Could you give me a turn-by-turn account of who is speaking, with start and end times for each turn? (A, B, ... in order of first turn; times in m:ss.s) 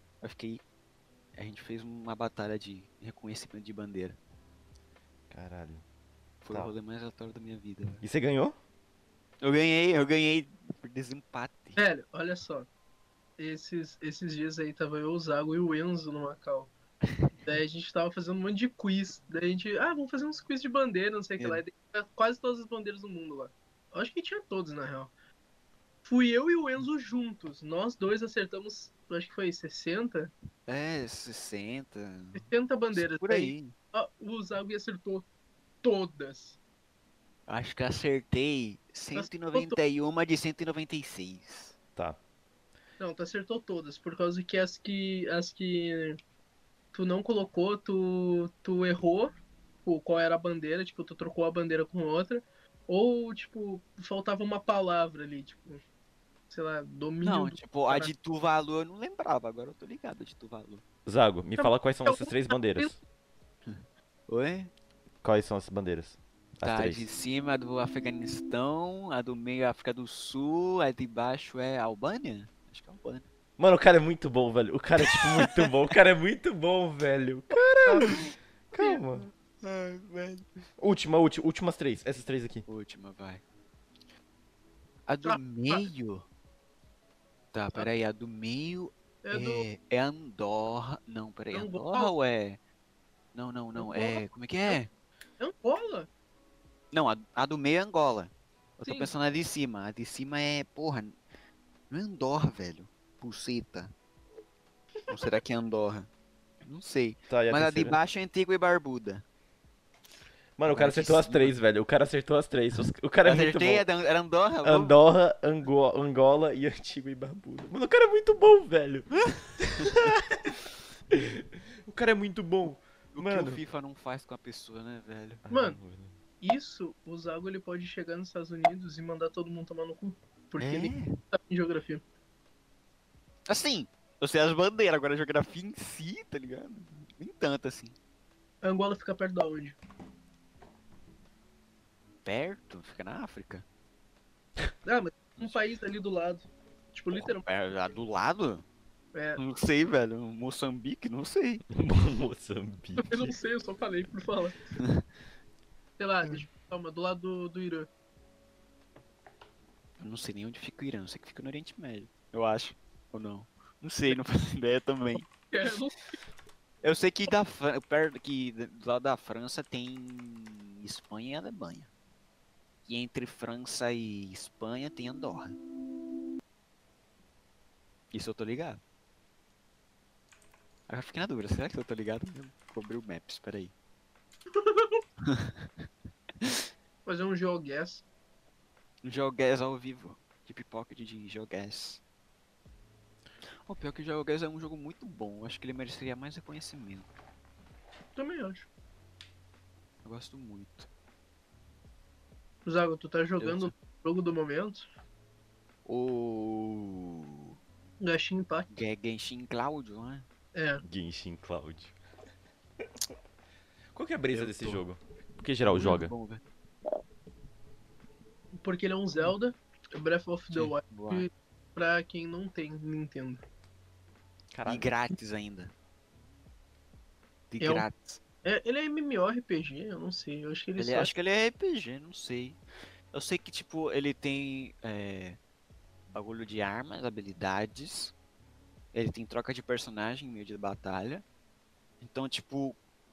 0:00.2-0:00.6 A
0:01.4-0:04.2 A
0:05.3-0:05.8 B
0:06.4-0:08.0 A
0:08.0-0:08.6 B
0:09.4-0:11.8 A
0:11.8-0:12.7 C
0:13.4-0:16.7 C
0:17.1-0:17.4 A
0:17.4-0:25.1 C
0:26.0-0:30.3 C
0:30.7-0:33.7 A
0:32.3-0:35.2 C
0:35.8-0:36.6 C
0:37.5-0:41.8 A
0:39.1-0:39.8 C
0:43.0-0:46.2 C
0:46.9-0:49.3 C
0:49.8-0:55.8 C
0:56.5-0:58.1 C
0:57.2-1:00.8 A
1:01.0-1:03.0 B
1:01.6-1:02.9 C
1:03.6-1:04.7 A
1:05.2-1:07.0 B
1:06.6-1:13.2 A
1:13.6-1:19.3 B
1:15.0-1:15.7 A
1:17.8-1:18.2 C
1:18.8-1:20.6 A
1:20.8-1:22.6 B
1:22.7-1:23.4 A
1:25.1-1:26.3 A
1:25.2-1:25.9 C
1:27.5-1:32.6 A
1:29.2-1:29.6 C
1:31.5-1:32.1 C
1:33.3-1:34.9 A
1:33.8-1:34.8 C
1:35.4-1:36.1 C
1:36.9-1:41.2 A
1:38.8-1:39.1 C
1:41.9-1:43.9 A
1:45.1-1:46.1 A
1:46.6-1:49.2 A
1:47.3-1:48.0 B
1:50.6-1:53.8 B
1:50.7-1:51.6 A
1:53.2-1:55.0 A
1:54.6-2:00.5 B
2:01.1-2:03.6 B
2:03.1-2:05.4 A
2:05.4-2:06.2 B
2:05.5-2:05.8 C
2:06.4-2:12.0 C
2:10.6-2:11.2 A
2:13.5-2:18.0 A
2:18.6-2:19.8 C
2:22.2-2:23.6 A
2:24.8-2:27.4 C
2:27.1-2:28.6 A
2:29.1-2:29.4 C
2:29.4-2:31.6 A
2:31.7-2:33.3 B
2:33.0-2:34.6 C
2:36.0-2:37.9 C
2:40.0-2:45.3 A
2:45.5-2:46.1 C
2:46.8-2:51.9 A
2:52.8-2:55.6 A
2:58.1-2:58.8 A
3:00.9-3:03.7 A
3:04.5-3:05.0 C
3:05.2-3:05.9 A
3:07.0-3:08.0 C
3:09.0-3:12.0 A
3:13.6-3:17.1 A
3:18.2-3:18.7 C
3:20.0-3:20.9 A
3:22.6-3:24.8 C
3:23.4-3:23.7 A
3:25.8-3:27.6 A
3:28.0-3:28.7 C
3:28.7-3:30.2 A
3:30.5-3:30.8 C
3:30.8-3:31.9 B
3:33.9-3:36.1 B
3:34.3-3:34.8 A
3:35.7-3:36.4 A
3:38.6-3:43.4 C
3:40.5-3:41.3 A
3:44.5-3:44.9 B
3:44.6-3:45.7 A
3:47.5-3:48.2 A
3:47.6-3:47.8 C
3:48.4-3:51.1 C
3:50.8-3:52.6 A
3:53.1-3:55.4 A
3:56.1-3:58.1 A
3:58.9-4:01.2 A
4:02.0-4:02.8 A